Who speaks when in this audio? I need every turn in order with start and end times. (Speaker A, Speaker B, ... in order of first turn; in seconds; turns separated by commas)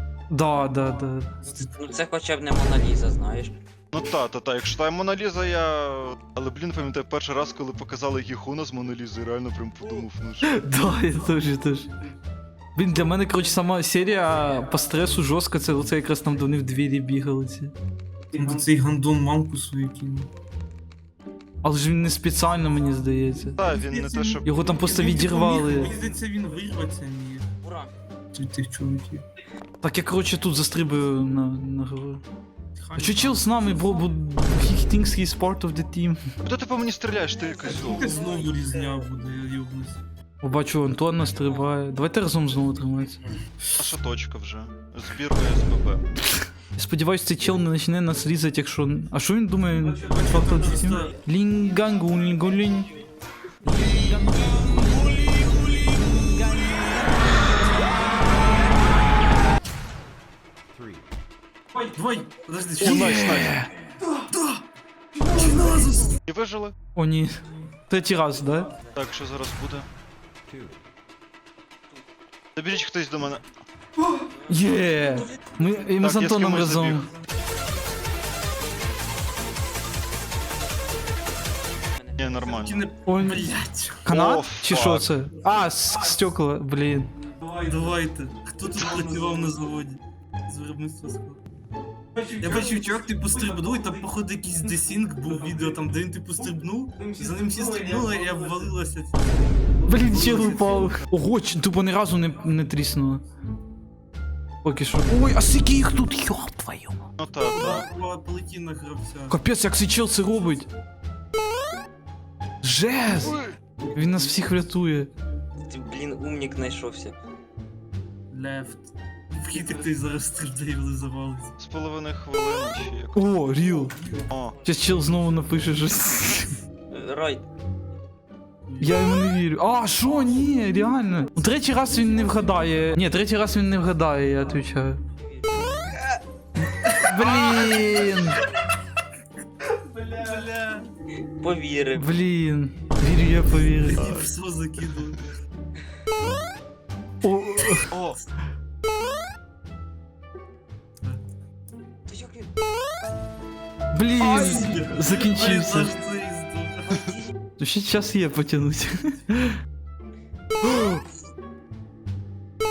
Speaker A: 0.3-1.3, Speaker B: 1.5-1.8, Speaker C: 1.6-3.5, Speaker D: 3.9-10.6, Speaker A: 10.4-11.9, Speaker A: 12.7-17.7, Speaker B: 18.3-20.3, Speaker A: 21.6-23.6, Speaker D: 23.6-24.5, Speaker B: 23.8-27.5, Speaker A: 24.4-25.9, Speaker C: 27.6-27.9, Speaker B: 28.3-29.2, Speaker A: 29.8-32.2, Speaker B: 32.8-33.5, Speaker A: 33.0-36.2, Speaker D: 36.4-38.2, Speaker B: 37.9-40.0, Speaker A: 40.4-43.2, Speaker D: 43.8-46.1, Speaker A: 46.7-52.9, Speaker B: 49.8-51.1, Speaker A: 53.7-55.1, Speaker A: 55.9-56.9, Speaker B: 61.8-63.0, Speaker D: 62.8-63.6, Speaker A: 62.8-63.7, Speaker B: 64.3-64.6, Speaker B: 65.2-66.2, Speaker D: 66.2-66.7, Speaker A: 66.9-68.7, Speaker D: 68.9-69.9, Speaker D: 72.5-73.4, Speaker A: 74.5-77.1, Speaker D: 76.0-77.1, Speaker C: 82.0-82.4, Speaker D: 82.2-82.9, Speaker B: 82.4-84.1, Speaker A: 83.0-83.5, Speaker A: 84.0-87.1, Speaker D: 84.1-85.1, Speaker B: 87.5-91.4, Speaker B: 92.2-100.9, Speaker A: 99.9-103.2, Speaker A: 104.6-107.0, Speaker D: 107.2-107.9, Speaker B: 107.5-109.4, Speaker A: 109.3-110.7, Speaker A: 112.6-115.1, Speaker D: 113.2-113.5, Speaker C: 115.6-117.1, Speaker B: 118.3-121.5, Speaker D: 121.6-123.4, Speaker A: 123.1-123.9, Speaker D: 124.3-124.6, Speaker A: 124.6-126.5, Speaker C: 126.9-127.4, Speaker A: 128.8-135.0, Speaker A: 136.8-138.4, Speaker B: 137.1-137.7, Speaker B: 139.8-140.9, Speaker C: 141.4-142.1, Speaker A: 141.9-144.2, Speaker B: 143.8-145.2, Speaker D: 143.9-144.3, Speaker A: 147.2-147.9, Speaker D: 147.9-148.2, Speaker C: 152.1-152.4, Speaker A: 153.9-155.9, Speaker B: 154.2-157.0, Speaker A: 157.6-159.6, Speaker A: 160.6-161.0